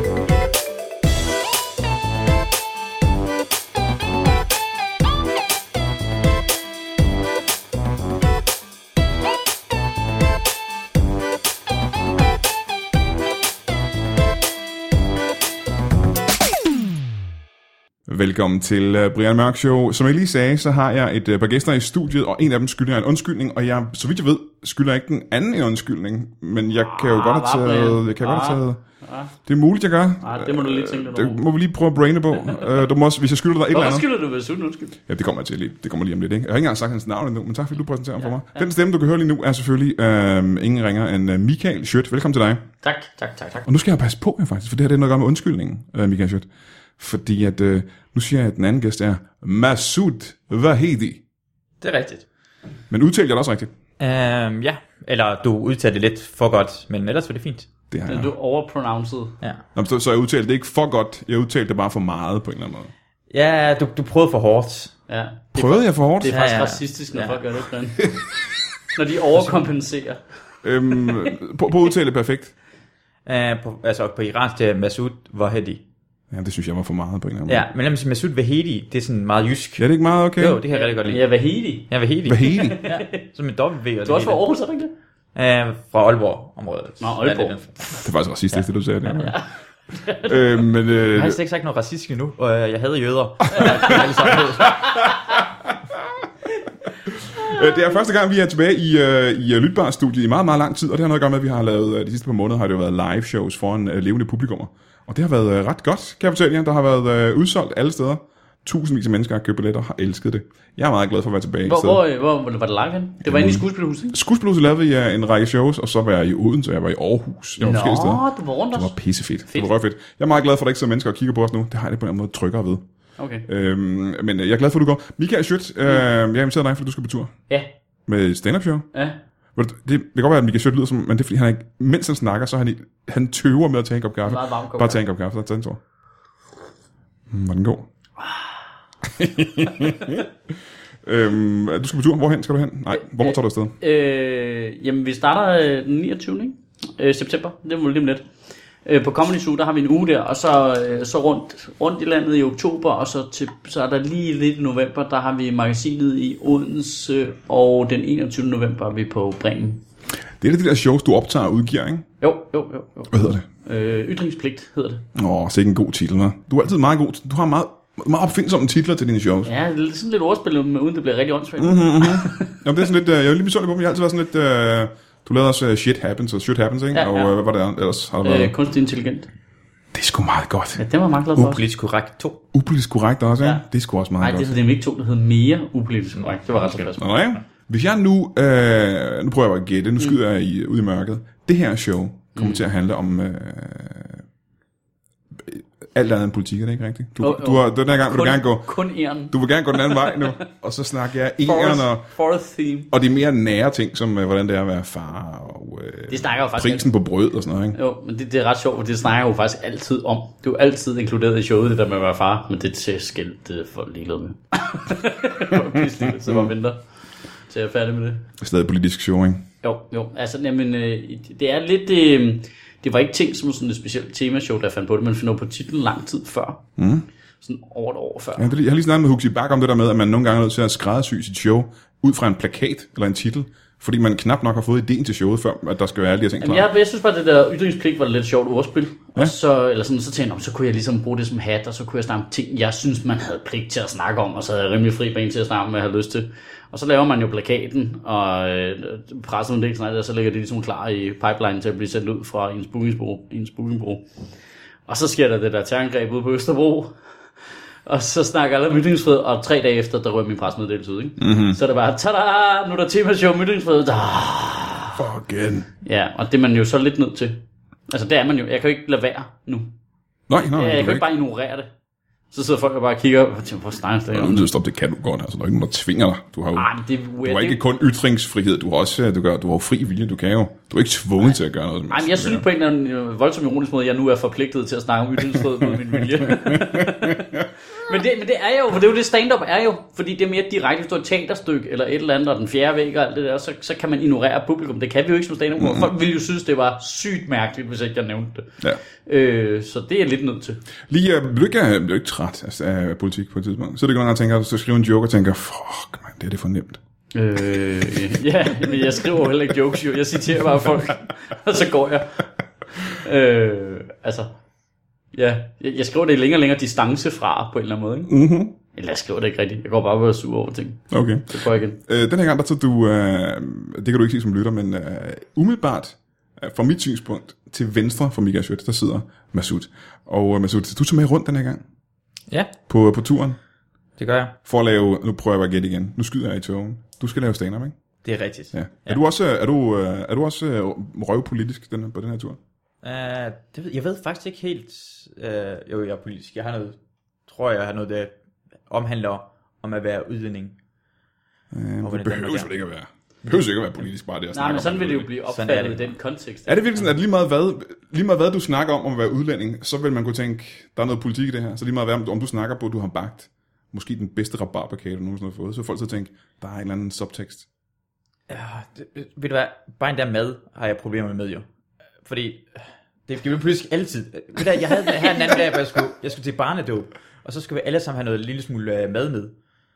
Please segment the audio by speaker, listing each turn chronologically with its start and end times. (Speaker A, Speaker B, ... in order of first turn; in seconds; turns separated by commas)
Speaker A: 18.1-28.8, Speaker B: 26.8-29.4, Speaker A: 29.4-34.1, Speaker B: 30.2-31.4, Speaker B: 32.4-32.8, Speaker B: 33.7-35.0, Speaker A: 35.0-42.6, Speaker B: 38.2-38.7, Speaker B: 42.8-43.7, Speaker A: 43.7-51.2, Speaker C: 51.8-52.3, Speaker A: 52.9-53.7, Speaker C: 54.0-57.7, Speaker A: 57.9-58.3, Speaker B: 58.0-59.4, Speaker A: 59.7-62.9, Speaker C: 63.3-64.9, Speaker B: 65.1-68.2, Speaker A: 65.5-66.3, Speaker C: 66.3-67.4, Speaker B: 68.9-70.2, Speaker C: 69.3-69.7, Speaker A: 70.6-72.5, Speaker B: 71.0-71.3, Speaker C: 73.2-75.8, Speaker A: 76.3-77.7, Speaker C: 77.5-81.3, Speaker A: 79.8-80.6, Speaker B: 80.7-81.9, Speaker C: 81.9-84.4, Speaker A: 82.2-82.8, Speaker B: 82.5-83.2, Speaker B: 84.0-84.9, Speaker C: 85.3-87.8, Speaker B: 87.0-88.1, Speaker A: 88.0-89.4, Speaker B: 89.1-90.6, Speaker A: 90.2-91.4, Speaker C: 91.1-94.9, Speaker B: 93.6-94.1, Speaker A: 94.6-95.8, Speaker A: 97.1-112.0, Speaker B: 97.5-97.8, Speaker B: 111.7-114.2, Speaker A: 113.2-122.8, Speaker B: 117.6-119.0, Speaker B: 119.5-119.7, Speaker B: 123.2-123.5, Speaker A: 123.5-127.3, Speaker A: 128.1-128.9, Speaker B: 128.9-129.2, Speaker A: 129.6-135.8, Speaker B: 134.3-135.0, Speaker A: 137.3-137.9, Speaker A: 139.2-140.3, Speaker A: 141.0-143.8, Speaker B: 142.9-148.3, Speaker B: 148.8-159.8, Speaker A: 160.4-162.1, Speaker B: 162.2-165.0, Speaker A: 163.1-163.4, Speaker A: 165.1-169.5, Speaker B: 169.4-172.5, Speaker A: 171.6-178.6, Speaker B: 176.9-177.4, Speaker B: 178.2-179.3, Speaker A: 179.9-180.8, Speaker B: 180.8-181.6, Speaker C: 181.3-182.4, Speaker A: 182.5-184.6, Speaker B: 184.2-187.0, Speaker A: 186.6-194.2, Speaker B: 192.4-192.6, Speaker A: 195.4-198.7, Speaker B: 197.2-200.4, Speaker A: 199.3-202.1, Speaker B: 201.4-202.9, Speaker A: 202.9-207.8, Speaker B: 206.1-206.9, Speaker B: 207.8-216.8, Speaker A: 216.1-216.5, Speaker B: 217.5-218.3, Speaker A: 218.4-219.4, Speaker B: 219.6-226.6, Speaker A: 226.8-227.1, Speaker B: 227.4-228.5, Speaker A: 228.4-236.7, Speaker B: 236.4-254.1, Speaker B: 254.9-265.0, Speaker A: 261.2-261.6, Speaker A: 264.9-265.7, Speaker B: 265.8-269.7, Speaker A: 270.3-271.0, Speaker B: 270.4-271.7, Speaker B: 272.3-274.5, Speaker A: 274.1-276.7, Speaker B: 276.5-277.6, Speaker A: 277.2-282.4, Speaker B: 281.9-300.6, Speaker A: 286.1-287.5, Speaker A: 295.6-295.9, Speaker A: 300.9-306.8, Speaker B: 307.1-312.3, Speaker B: 312.9-314.3, Speaker B: 315.1-318.1, Speaker A: 318.1-318.5, Speaker B: 318.6-321.8, Speaker A: 320.9-321.3, Speaker A: 321.8-331.6, Speaker A: 332.7-333.4, Speaker C: 334.0-334.4, Speaker A: 334.4-337.8, Speaker C: 338.0-339.0, Speaker A: 338.5-342.4, Speaker C: 342.8-348.1, Speaker C: 348.7-350.6, Speaker A: 351.5-355.1, Speaker C: 351.8-352.5, Speaker B: 354.3-356.8, Speaker C: 355.2-356.0, Speaker A: 356.5-367.5, Speaker C: 368.3-371.4, Speaker C: 372.0-379.3